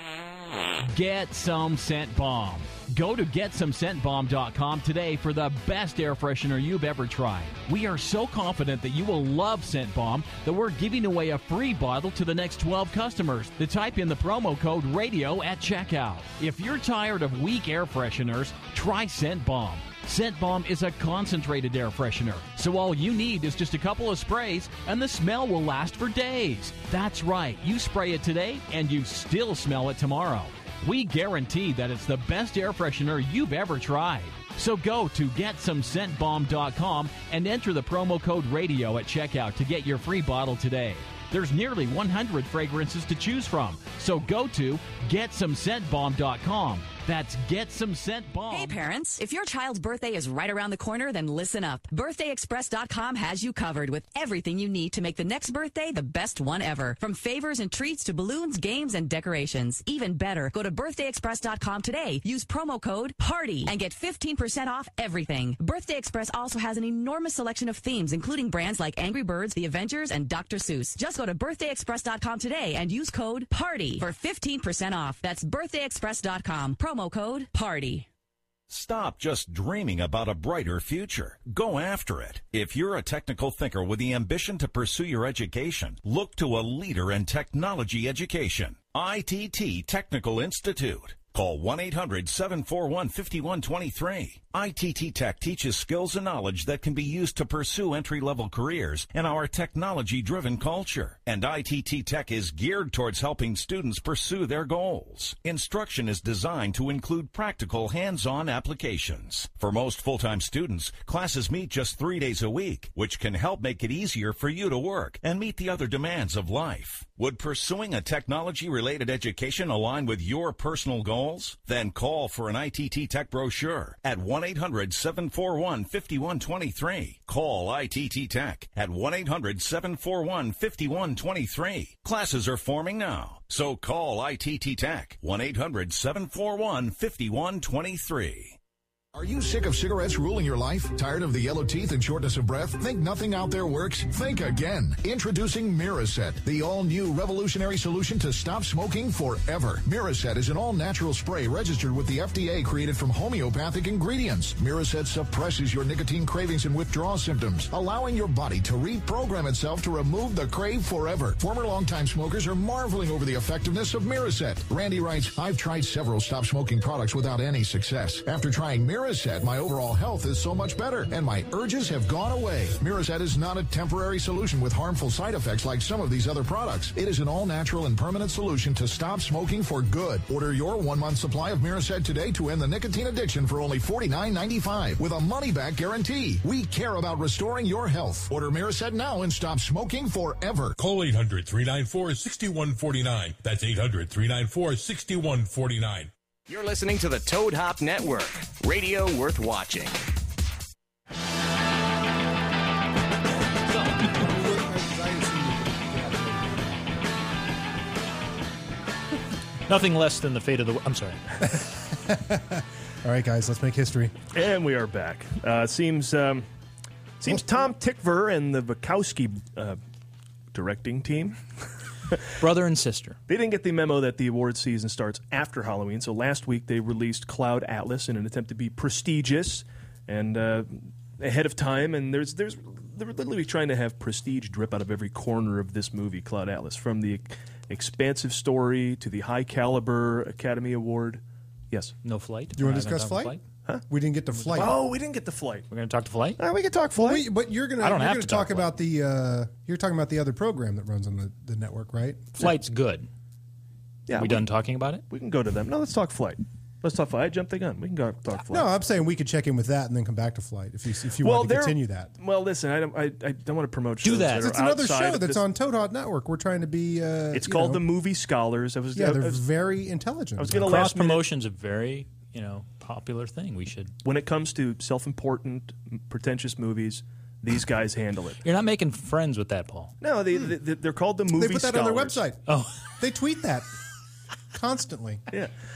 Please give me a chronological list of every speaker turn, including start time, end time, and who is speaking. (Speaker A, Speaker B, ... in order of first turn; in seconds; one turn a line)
Speaker A: 0.8-48.8
Speaker B: 48.5-78.1
Speaker C: 78.7-138.6
Speaker D: 139.1-190.7
Speaker E: 190.8-196.1
Speaker F: 196.5-200.0
Speaker G: 204.0-206.9
Speaker H: 209.7-211.2
Speaker G: 211.6-214.1
Speaker I: 214.3-216.4
Speaker I: 217.2-219.8
Speaker I: 220.5-221.4
Speaker H: 222.4-223.2
Speaker I: 223.3-241.9
Speaker H: 242.0-243.4
Speaker G: 242.6-243.4
Speaker G: 243.9-244.8
Speaker H: 244.4-244.8
Speaker I: 244.5-245.7
Speaker H: 245.7-246.4
Speaker I: 246.4-247.3
Speaker G: 246.9-252.3
Speaker H: 247.8-248.8
Speaker H: 252.4-253.1
Speaker I: 254.1-254.5
Speaker H: 254.1-255.0
Speaker I: 255.1-258.7
Speaker G: 258.5-262.1
Speaker I: 261.2-265.4
Speaker H: 264.0-264.5
Speaker G: 264.4-267.8
Speaker I: 267.3-269.4
Speaker G: 268.9-270.9
Speaker I: 270.4-271.2
Speaker H: 270.6-273.9
Speaker I: 274.0-278.4
Speaker H: 278.4-279.9
Speaker I: 280.0-282.2
Speaker G: 281.3-282.4
Speaker H: 282.5-282.7
Speaker G: 283.0-283.7
Speaker G: 284.5-285.2